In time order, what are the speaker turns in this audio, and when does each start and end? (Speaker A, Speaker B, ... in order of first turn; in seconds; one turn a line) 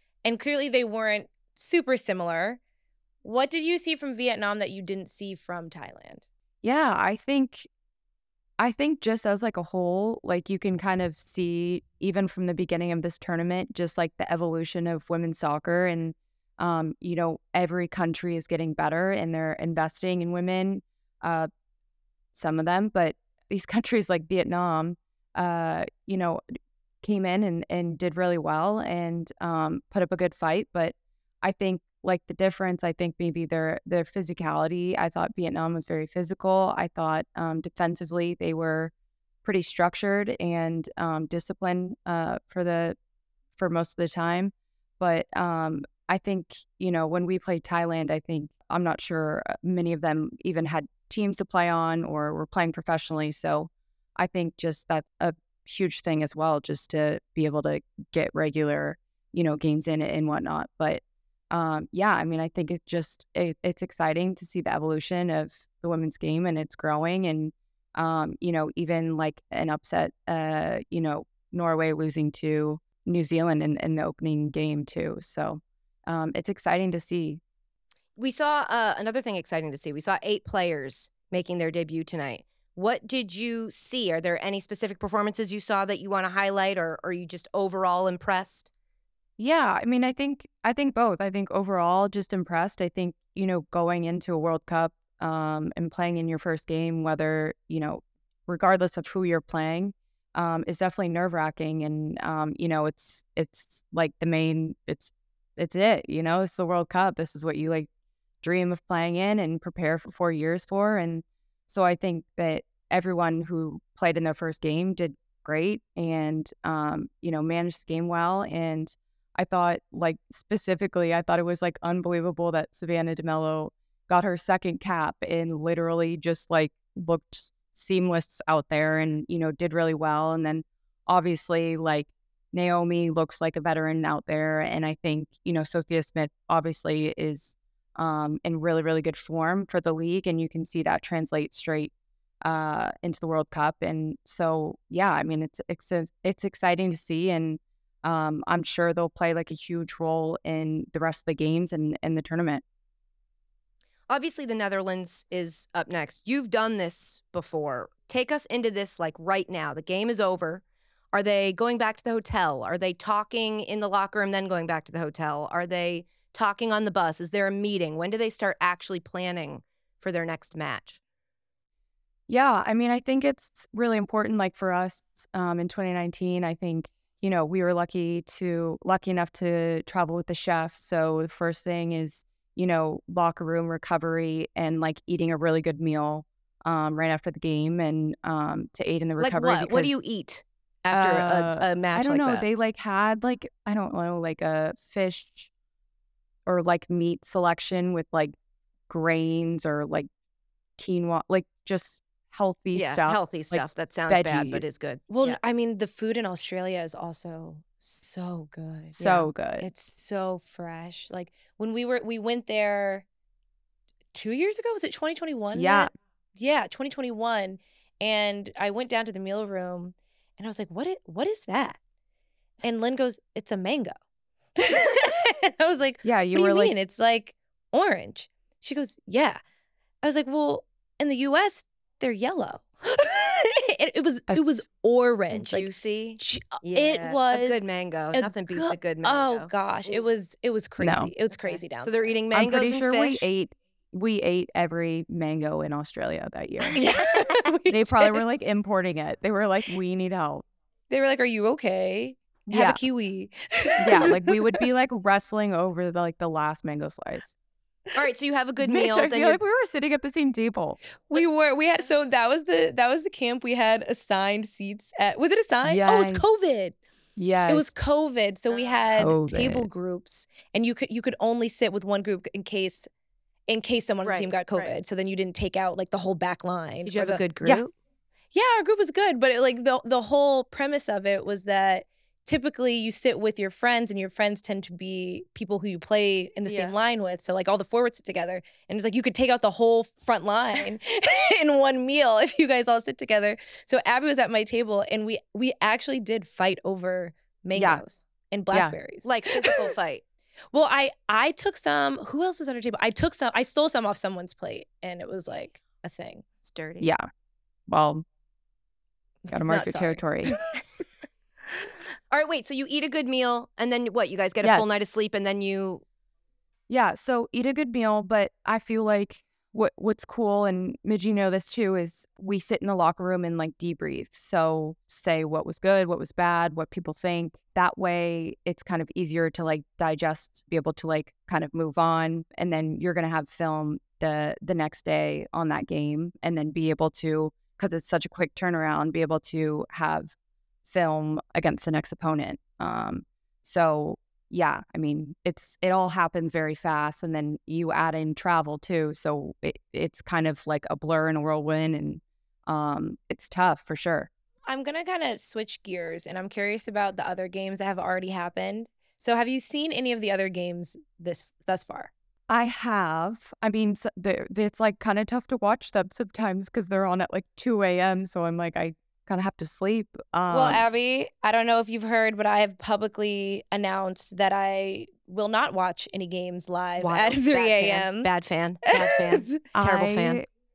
Speaker A: 0.2-2.6
Speaker A: 3.2-6.2
Speaker B: 6.6-7.7
Speaker B: 8.6-21.5
Speaker B: 22.3-26.4
Speaker B: 27.0-38.9
Speaker B: 39.4-43.0
Speaker B: 43.6-77.4
Speaker C: 78.2-88.7
Speaker B: 89.4-107.9
Speaker B: 108.4-152.6
Speaker C: 154.1-171.0
Speaker B: 172.3-190.0
Speaker C: 189.2-192.4
Speaker B: 190.9-195.5
Speaker B: 196.4-198.3
Speaker B: 198.9-200.1
Speaker B: 200.8-204.7
Speaker C: 202.7-205.4
Speaker A: 205.1-213.1
Speaker B: 209.0-209.7
Speaker A: 214.1-221.8
Speaker B: 215.5-215.9
Speaker A: 222.6-223.9
Speaker A: 224.6-229.4
Speaker B: 226.0-226.7
Speaker A: 230.0-242.1
Speaker B: 234.3-234.6
Speaker C: 235.3-239.5
Speaker B: 240.8-241.1
Speaker C: 241.4-243.3
Speaker B: 242.3-246.8
Speaker A: 246.7-248.2
Speaker B: 247.7-250.4
Speaker A: 250.9-254.6
Speaker B: 252.5-252.8
Speaker B: 253.8-257.4
Speaker C: 257.9-259.4
Speaker B: 258.6-260.8
Speaker A: 261.0-266.8
Speaker B: 265.6-266.3
Speaker B: 267.1-267.7
Speaker A: 267.5-272.9
Speaker C: 268.5-268.9
Speaker B: 268.9-269.7
Speaker A: 273.5-277.2
Speaker C: 274.0-274.8
Speaker C: 276.9-277.7
Speaker A: 278.3-299.7
Speaker C: 286.4-286.7
Speaker B: 297.5-297.8
Speaker C: 299.0-300.0
Speaker A: 300.5-306.2
Speaker C: 306.4-306.9
Speaker B: 306.8-307.1
Speaker B: 307.7-308.0
Speaker A: 309.3-310.4
Speaker B: 309.3-310.3
Speaker C: 312.1-315.8
Speaker B: 314.4-314.8
Speaker B: 316.7-354.1
Speaker A: 354.5-361.9
Speaker B: 362.3-370.6
Speaker A: 370.3-378.1
Speaker C: 376.8-380.2
Speaker A: 378.7-379.4
Speaker B: 379.5-380.3